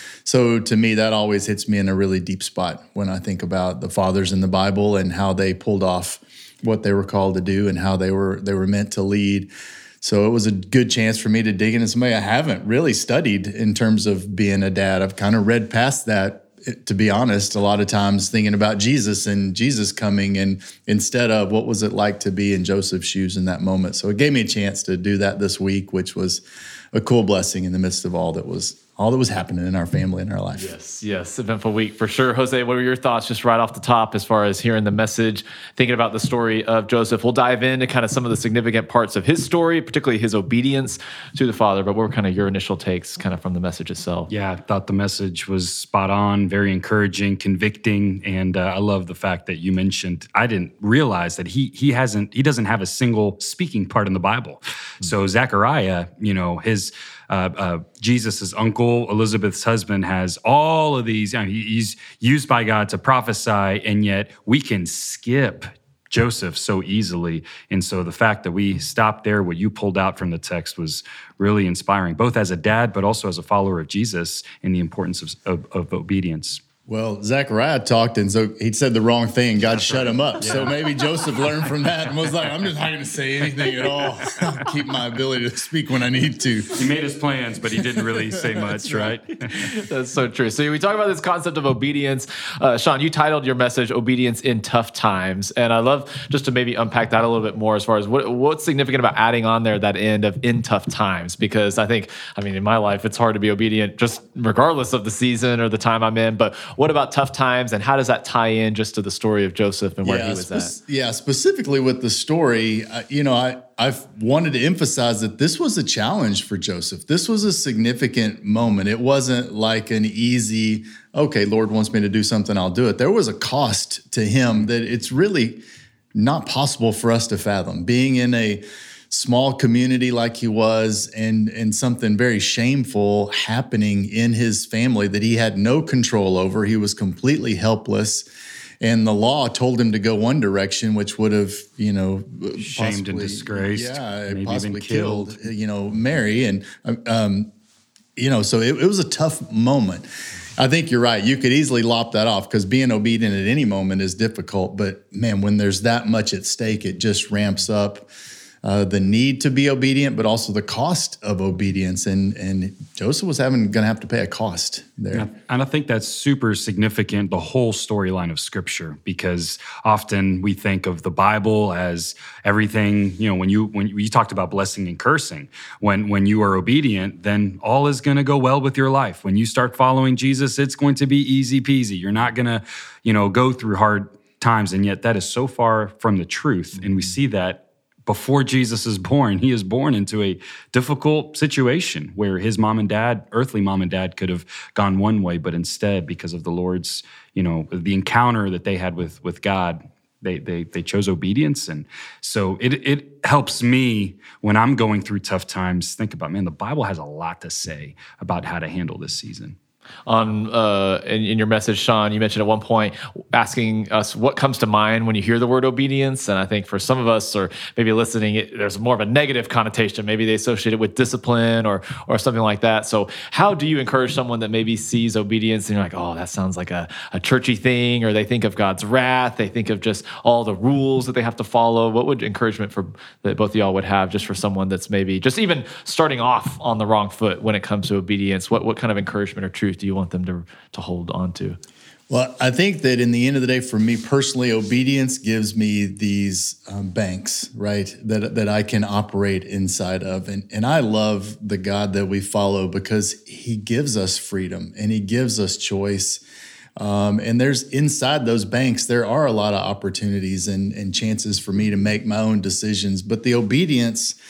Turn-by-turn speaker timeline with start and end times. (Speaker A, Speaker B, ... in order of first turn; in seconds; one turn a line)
Speaker A: 0.2-9.5
Speaker A: 10.0-30.8
Speaker B: 30.6-44.3
Speaker C: 44.3-76.6
Speaker A: 76.9-86.9
Speaker C: 80.4-80.8
Speaker C: 86.8-89.7
Speaker B: 89.5-110.7
Speaker A: 110.0-125.6
Speaker A: 126.2-138.3
Speaker A: 138.8-147.5
Speaker C: 142.6-145.5
Speaker A: 148.2-158.1
Speaker A: 158.6-165.3
Speaker C: 165.1-209.6
Speaker B: 210.1-241.6
Speaker A: 242.1-256.2
Speaker A: 256.8-264.2